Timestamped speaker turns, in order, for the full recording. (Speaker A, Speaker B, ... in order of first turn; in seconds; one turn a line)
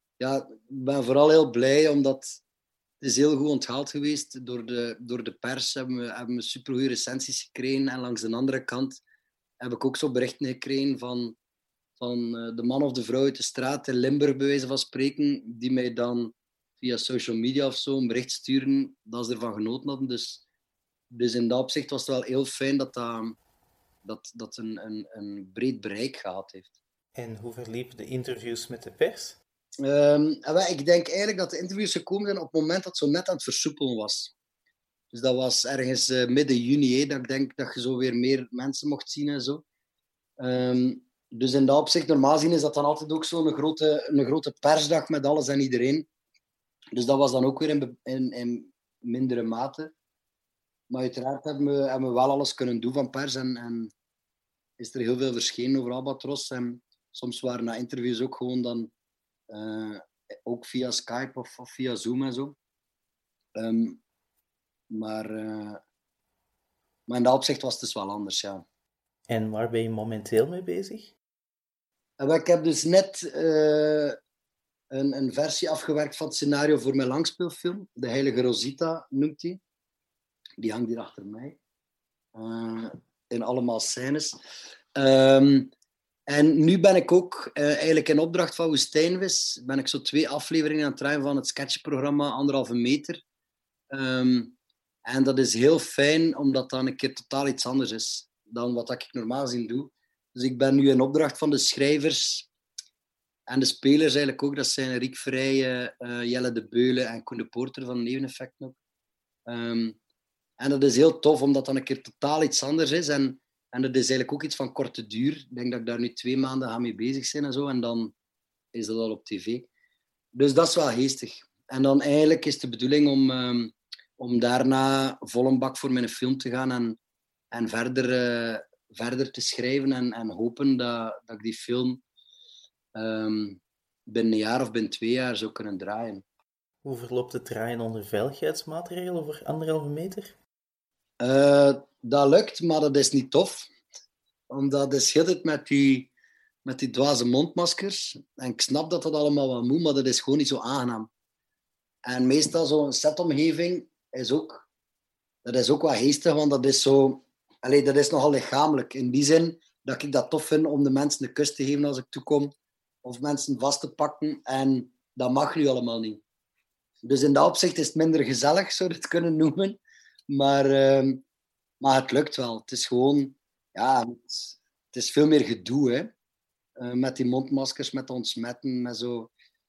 Speaker A: 0.2-2.4
Speaker A: 3.0-9.0
Speaker A: 9.6-11.4
Speaker A: 12.0-20.4
Speaker A: 21.1-23.4
Speaker A: 24.0-26.7
Speaker B: 27.1-29.4
Speaker A: 29.8-34.3
Speaker A: 35.1-39.6
Speaker A: 40.4-46.1
Speaker A: 46.9-49.9
Speaker A: 50.9-53.9
Speaker A: 54.8-58.9
Speaker A: 59.5-62.6
Speaker A: 63.5-64.0
Speaker A: 64.9-65.8
Speaker A: 67.1-68.6
Speaker B: 69.3-71.1
Speaker A: 72.2-74.2
Speaker A: 74.9-79.6
Speaker A: 80.6-81.6
Speaker A: 82.3-84.4
Speaker A: 85.0-85.7
Speaker A: 86.3-93.2
Speaker A: 93.9-102.5
Speaker A: 103.5-108.8
Speaker A: 109.5-110.0
Speaker A: 110.6-118.1
Speaker A: 118.7-119.7
Speaker A: 120.3-127.0
Speaker A: 127.5-132.0
Speaker A: 132.9-136.2
Speaker B: 136.8-140.3
Speaker A: 141.2-143.7
Speaker A: 144.5-146.1
Speaker A: 146.6-151.1
Speaker A: 152.1-154.7
Speaker A: 155.4-162.5
Speaker A: 163.0-166.2
Speaker A: 167.1-171.2
Speaker A: 171.8-176.1
Speaker A: 176.8-179.3